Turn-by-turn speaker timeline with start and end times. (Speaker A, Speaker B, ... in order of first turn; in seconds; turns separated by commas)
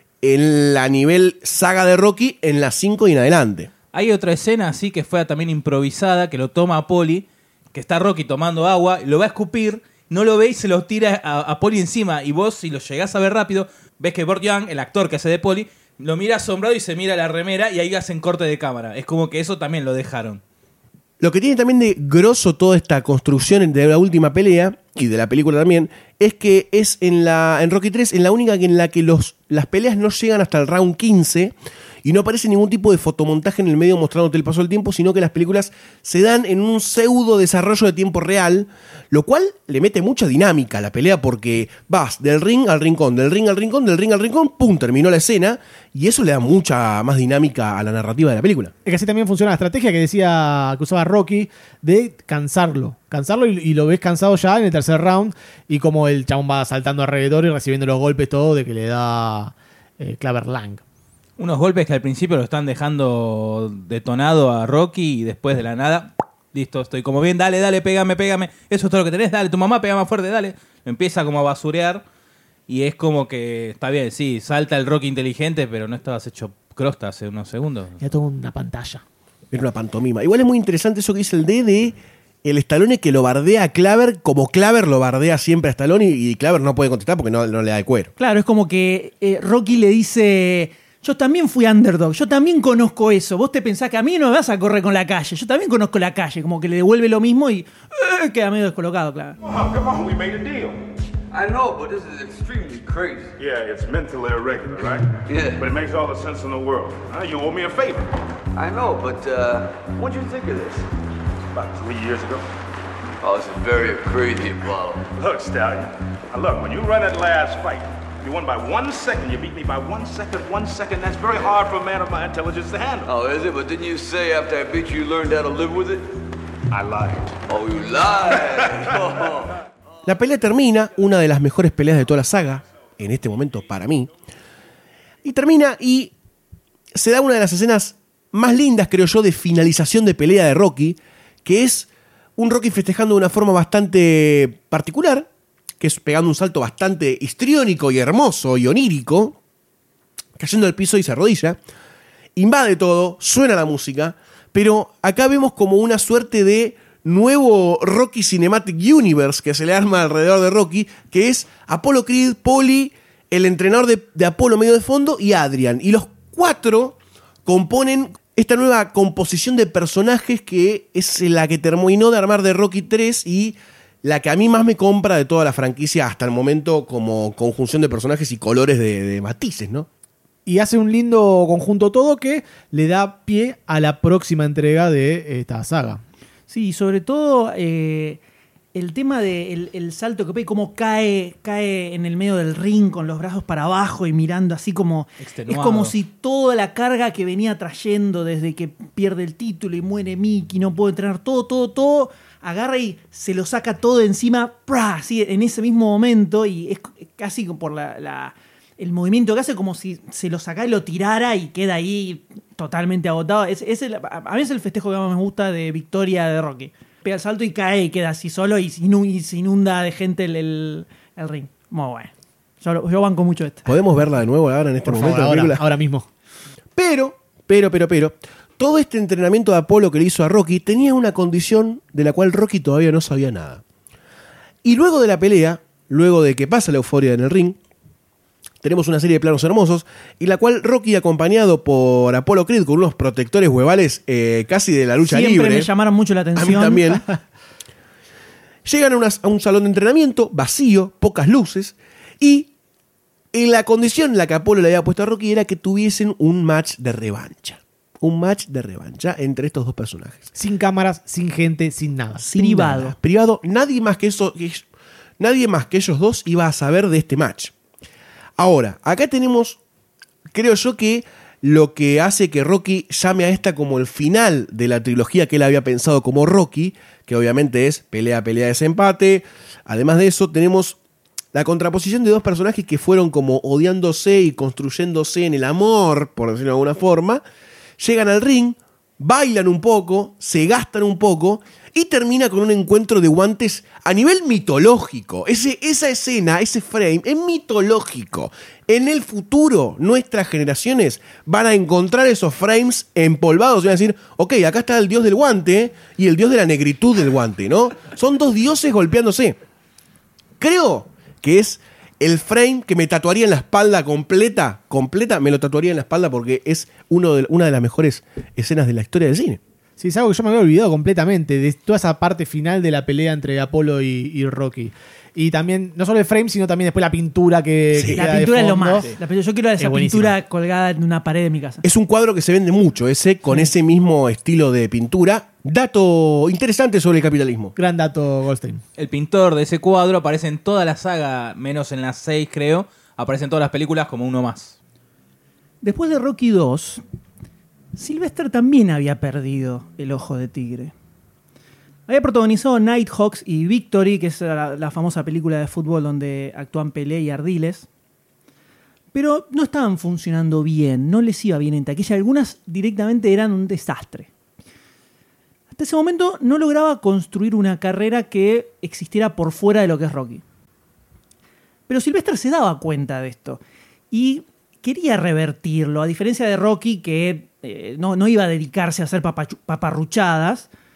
Speaker A: 0.2-3.7, Speaker B: 3.9-20.4, Speaker A: 21.2-48.7, Speaker C: 48.8-60.8, Speaker B: 61.4-72.0, Speaker B: 72.7-78.0, Speaker C: 78.0-79.0, Speaker A: 79.5-88.1, Speaker D: 88.2-99.4, Speaker E: 99.4-100.8, Speaker F: 101.3-103.3, Speaker E: 103.4-108.1, Speaker F: 105.3-105.7, Speaker F: 108.5-110.8, Speaker E: 111.5-112.4, Speaker F: 113.2-115.0, Speaker E: 115.2-123.1, Speaker F: 123.1-126.1, Speaker E: 126.7-127.3, Speaker F: 127.5-129.5, Speaker A: 130.1-134.1, Speaker A: 135.2-136.1, Speaker A: 136.9-145.3, Speaker A: 145.8-149.4, Speaker A: 150.4-151.6, Speaker A: 152.3-179.9, Speaker C: 180.4-186.0, Speaker D: 186.5-188.2, Speaker D: 188.7-223.7, Speaker B: 195.2-195.9, Speaker A: 223.7-225.6, Speaker C: 224.8-226.1, Speaker A: 226.8-233.6, Speaker A: 234.6-237.6, Speaker A: 238.6-245.7, Speaker D: 245.0-247.0, Speaker A: 246.3-247.1, Speaker A: 248.6-252.5, Speaker A: 253.3-260.3, Speaker C: 260.3-262.3, Speaker A: 262.2-264.6, Speaker D: 262.4-262.9, Speaker A: 265.2-267.5, Speaker A: 268.4-269.6, Speaker A: 270.3-280.8, Speaker A: 281.3-287.2, Speaker A: 287.8-309.4, Speaker A: 310.4-319.4, Speaker C: 319.8-328.9, Speaker A: 327.7-328.0, Speaker D: 327.9-331.6, Speaker C: 329.6-330.1, Speaker A: 331.6-337.5, Speaker C: 337.6-338.6, Speaker B: 338.8-344.6, Speaker D: 345.6-346.8, Speaker D: 347.7-350.7, Speaker D: 351.9-357.7, Speaker D: 358.9-364.1, Speaker D: 365.5-370.2, Speaker D: 371.7-373.4, Speaker D: 373.9-380.5